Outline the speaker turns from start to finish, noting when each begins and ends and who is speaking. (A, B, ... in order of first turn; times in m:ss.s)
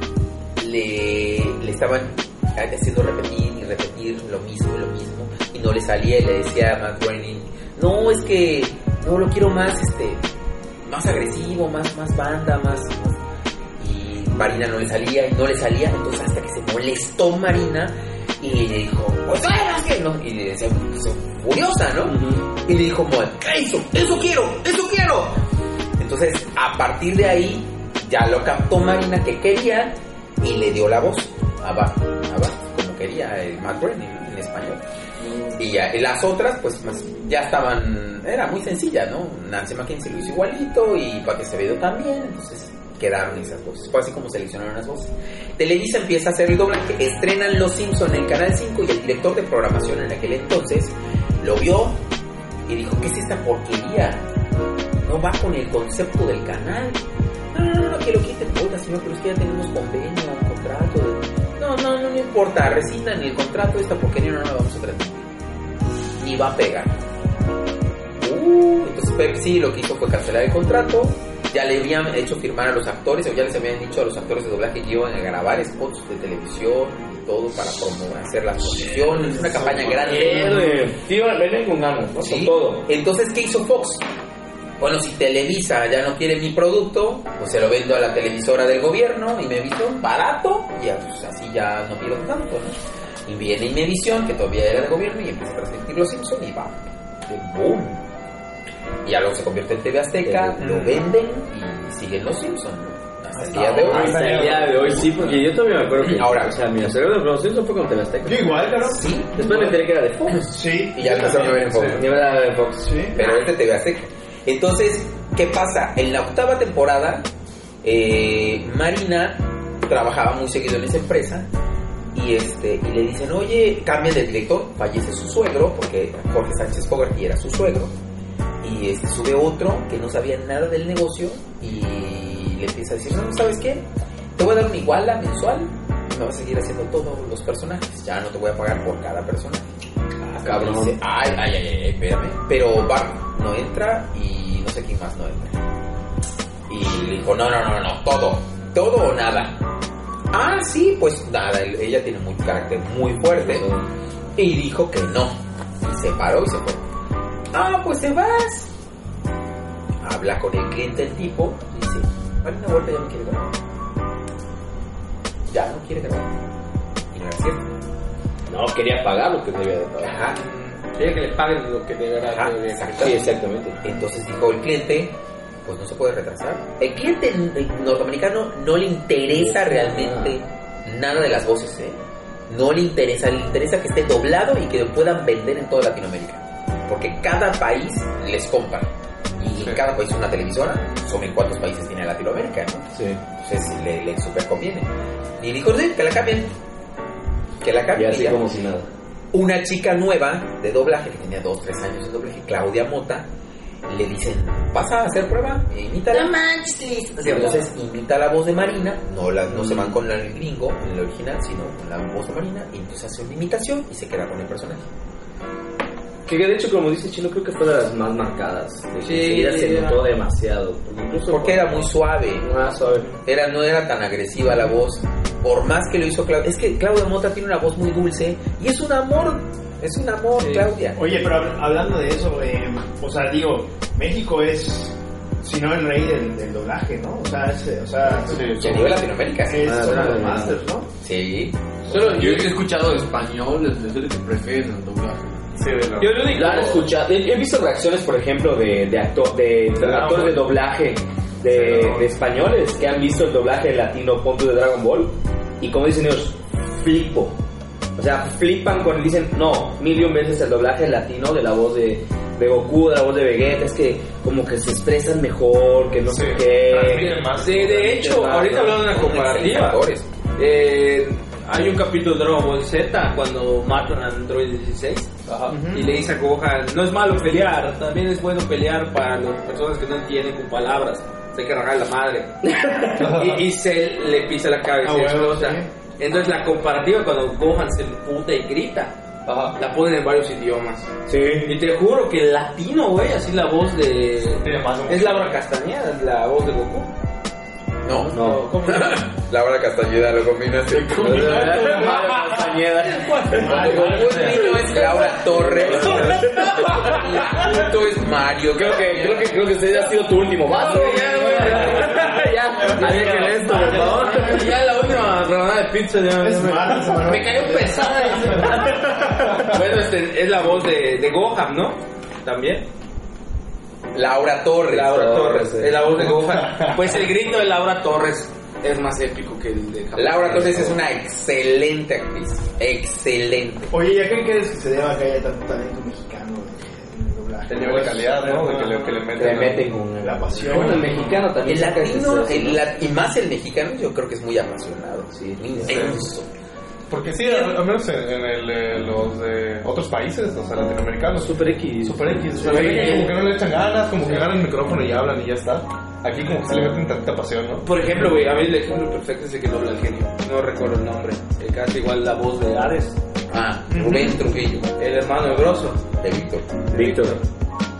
0:00.6-0:10.2 A
0:10.8-0:13.2 A
0:13.8-0:25.4 A
0:22.1-0:22.4 B
0:26.0-0:34.8 A
0:35.5-0:52.0 A
0:52.7-0:54.3 A
0:55.0-1:05.3 A
1:06.2-1:07.0 A
1:08.2-1:20.6 A
1:20.0-1:22.8 B
1:22.2-1:24.0 A
1:24.8-1:38.0 A
1:39.0-1:44.1 A
1:40.2-1:40.8 B
1:43.4-1:44.2 C
1:43.8-1:48.8 B
1:43.9-1:45.5 D
1:46.1-1:46.6 A
1:48.3-1:49.5 C
1:48.8-1:49.7 A
1:49.4-1:50.5 B
1:50.3-1:52.1 A
1:50.4-1:51.6 C
1:51.7-1:52.0 D
1:51.9-1:53.4 B
1:52.8-1:53.2 C
1:53.1-1:57.3 A
1:57.8-2:01.5 A
2:02.1-2:07.9 A
2:08.6-2:19.7 A
2:20.2-2:25.6 A
2:20.4-2:21.0 B
2:26.7-2:29.6 A
2:30.3-2:33.7 A
2:33.3-2:33.9 B
2:34.4-2:36.8 A
2:37.5-2:38.7 A
2:40.0-2:43.6 A
2:45.5-2:46.3 A
2:47.1-2:47.7 A
2:48.5-2:50.2 B
2:50.0-2:50.4 A
2:50.3-2:53.2 E
2:52.2-3:12.9 A
2:53.0-2:53.8 B
2:59.3-3:00.4 B
3:12.9-3:13.2 B
3:13.4-3:16.5 A
3:17.6-3:18.5 A
3:17.9-3:18.9 B
3:19.3-3:23.3 A
3:23.9-3:26.4 A
3:26.1-3:27.6 B
3:27.2-3:34.9 A
3:29.5-3:29.9 B
3:36.3-3:41.8 B
3:39.0-3:40.0 E
3:41.3-3:51.0 A
3:42.4-3:43.1 B
3:51.0-4:00.8 C
3:58.3-3:58.9 D
3:58.6-4:00.4 A
3:59.6-4:00.6 B
4:01.0-4:01.6 A
4:01.9-4:05.4 F
4:05.6-4:06.4 D
4:06.0-4:17.4 B
4:06.2-4:06.8 E
4:09.8-4:10.3 E
4:09.8-4:10.4 D
4:11.5-4:12.1 D
4:18.0-4:27.2 B
4:26.1-4:28.1 D
4:26.8-4:29.8 E
4:27.9-4:28.8 B
4:28.6-4:30.1 A
4:30.4-4:50.9 E
4:35.5-4:35.9 C
4:42.4-4:43.1 B
4:43.0-4:43.4 D
4:44.8-4:45.7 C
4:51.1-4:51.5 B
4:51.4-4:56.9 E
4:54.4-4:55.4 D
4:57.8-5:01.6 A
4:58.1-4:58.5 B
4:58.1-4:59.0 E
5:00.9-5:07.1 B
5:01.4-5:02.5 D
5:03.3-5:09.3 A
5:03.5-5:03.9 E
5:05.6-5:07.0 E
5:08.5-5:14.5 B
5:10.5-5:22.7 E
5:13.1-5:14.5 C
5:16.2-5:19.2 C
5:17.6-5:18.5 B
5:23.9-5:25.4 A
5:24.7-5:30.7 E
5:24.9-5:25.8 B
5:25.9-5:26.9 D
5:30.0-5:33.7 A
5:33.7-5:38.8 C
5:37.5-5:39.7 D
5:38.3-5:38.8 E
5:39.1-5:42.6 B
5:40.0-5:41.2 C
5:41.4-5:46.3 A
5:45.1-5:46.0 B
5:45.7-5:46.0 D
5:46.9-5:57.7 D
5:47.2-5:47.5 A
5:51.2-5:53.2 B
5:52.4-5:53.1 E
5:57.6-6:03.0 E
6:03.3-6:04.7 A
6:03.7-6:04.2 C
6:04.8-6:05.8 E
6:06.0-6:06.5 A
6:06.7-6:07.2 B
6:06.7-6:07.2 E